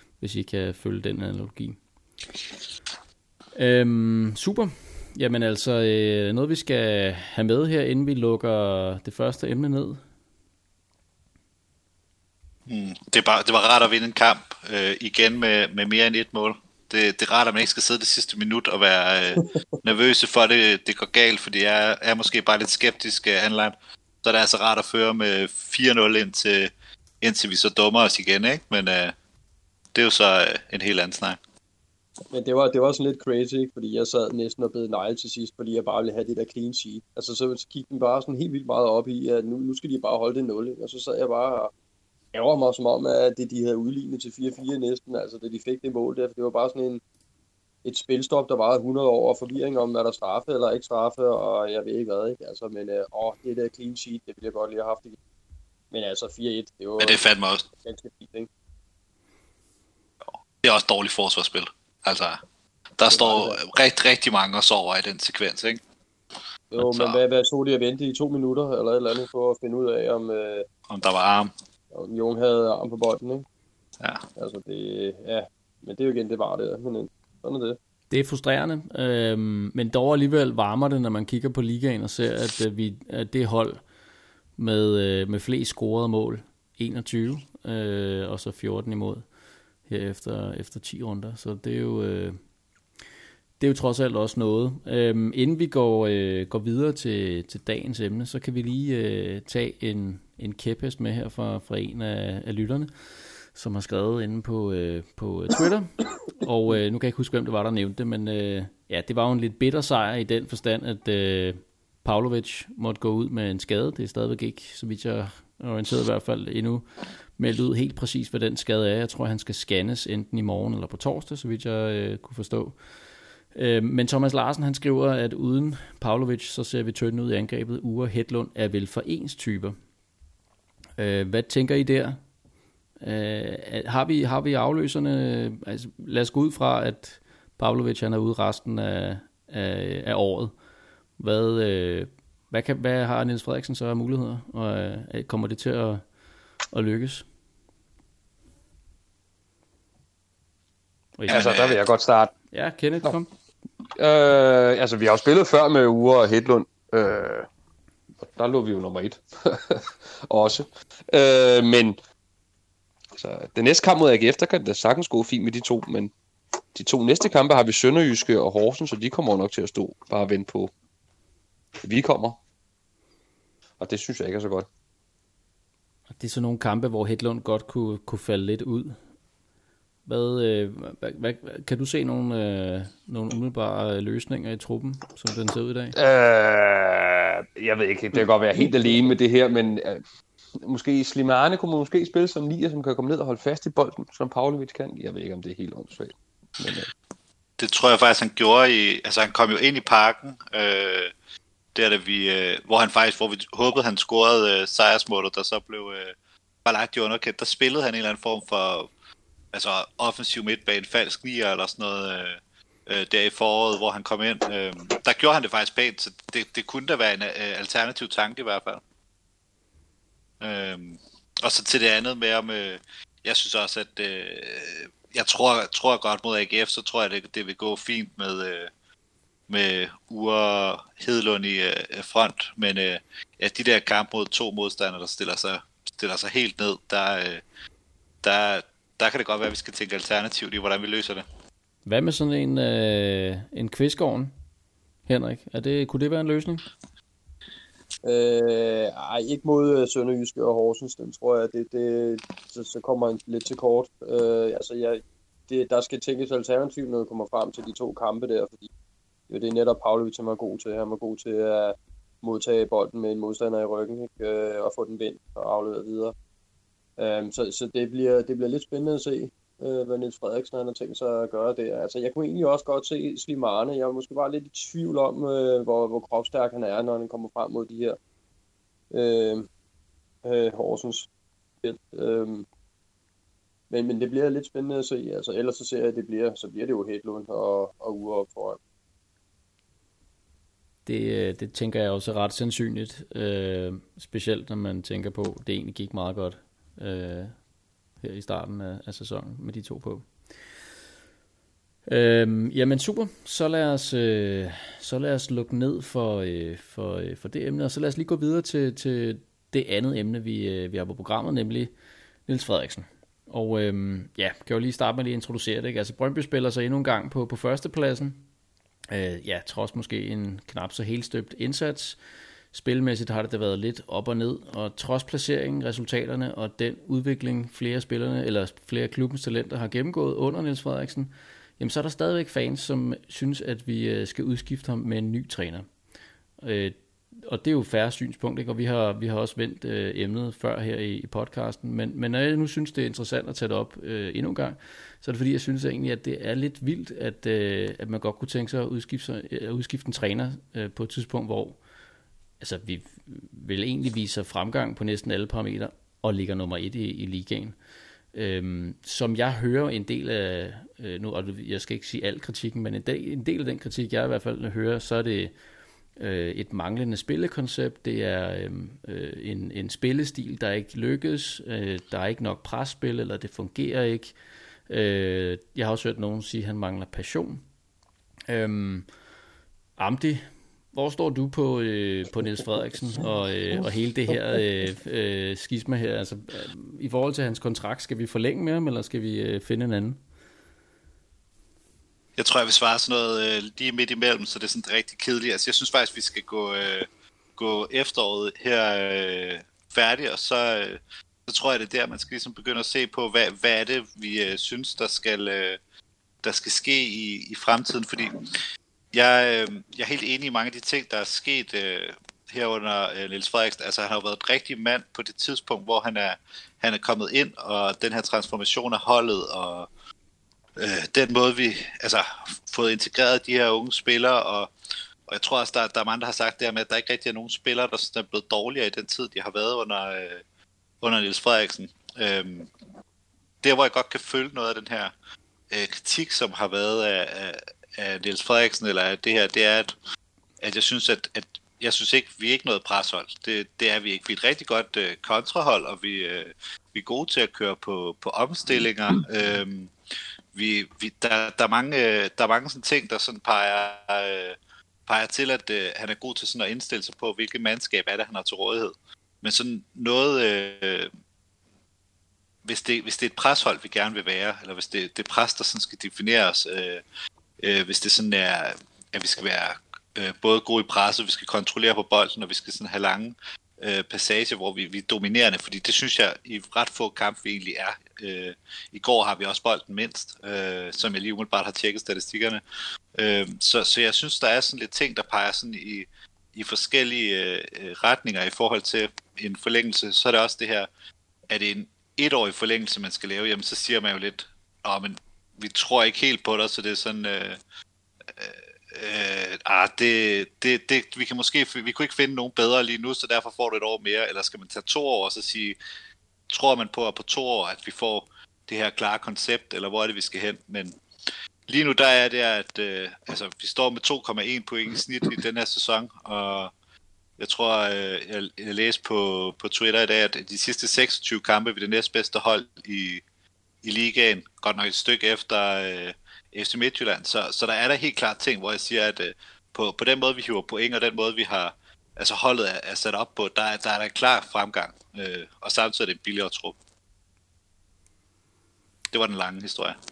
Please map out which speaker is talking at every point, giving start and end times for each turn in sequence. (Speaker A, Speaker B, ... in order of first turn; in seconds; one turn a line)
Speaker A: 0.2-1.8
Speaker A: 3.5-10.0
Speaker B: 12.7-29.1
Speaker B: 29.9-31.4
Speaker C: 32.3-41.7
Speaker C: 42.3-47.0
Speaker C: 47.8-55.2
Speaker C: 55.9-57.2
Speaker B: 57.0-57.6
Speaker C: 57.8-58.5
Speaker B: 60.6-62.4
Speaker B: 63.0-65.8
Speaker C: 63.1-63.6
Speaker C: 66.7-70.7
Speaker B: 66.8-67.2
Speaker B: 70.9-71.5
Speaker C: 71.9-73.5
Speaker C: 74.4-77.8
Speaker A: 78.1-83.8
Speaker A: 84.6-89.3
Speaker A: 89.9-92.4
Speaker A: 93.6-129.8
Speaker A: 131.0-132.2
Speaker A: 133.0-140.5
Speaker A: 141.2-146.0
Speaker A: 146.7-147.3
Speaker A: 151.2-151.6
Speaker B: 151.3-151.8
Speaker D: 151.3-152.3
Speaker A: 152.5-153.3
Speaker D: 154.0-157.5
Speaker D: 158.2-162.0
Speaker D: 163.2-166.1
Speaker D: 166.7-170.7
Speaker D: 171.8-172.4
Speaker D: 173.8-174.7
Speaker A: 176.2-179.0
Speaker A: 180.1-186.0
Speaker D: 185.9-190.0
Speaker D: 190.6-196.8
Speaker B: 197.6-201.1
Speaker B: 201.8-206.1
Speaker B: 206.7-208.9
Speaker B: 209.5-218.8
Speaker B: 220.4-228.7
Speaker B: 229.5-237.4
Speaker B: 238.2-241.2
Speaker A: 241.9-244.3
Speaker A: 245.1-246.6
Speaker C: 248.0-258.7
Speaker C: 259.3-266.1
Speaker C: 267.0-278.0
Speaker C: 278.9-279.5
Speaker C: 280.2-281.1
Speaker C: 281.6-282.5
Speaker C: 283.7-288.6
Speaker A: 290.9-297.4
Speaker A: 298.0-300.1
Speaker A: 301.9-311.7
Speaker A: 312.3-318.2
Speaker A: 318.9-322.0
Speaker A: 322.5-335.7
Speaker A: 336.4-351.6
Speaker A: 352.4-357.6
Speaker A: 358.1-365.3
Speaker A: 366.0-374.2
Speaker A: 374.7-377.4
Speaker A: 378.3-378.9
Speaker A: 379.8-390.0
Speaker B: 392.2-405.6
Speaker B: 406.2-408.4
Speaker B: 408.9-419.7
Speaker B: 420.6-424.5
Speaker B: 425.1-430.2
Speaker B: 430.8-432.5
Speaker B: 433.4-434.9
Speaker B: 435.5-439.8
Speaker B: 440.4-449.7
Speaker B: 450.4-460.9
Speaker B: 462.4-466.8
Speaker B: 467.4-482.4
Speaker B: 482.9-490.7
Speaker B: 491.3-497.4
Speaker B: 498.1-505.6
Speaker B: 506.3-510.8
Speaker B: 511.5-516.5
Speaker B: 517.2-523.0
Speaker B: 523.6-536.6
Speaker B: 538.9-539.8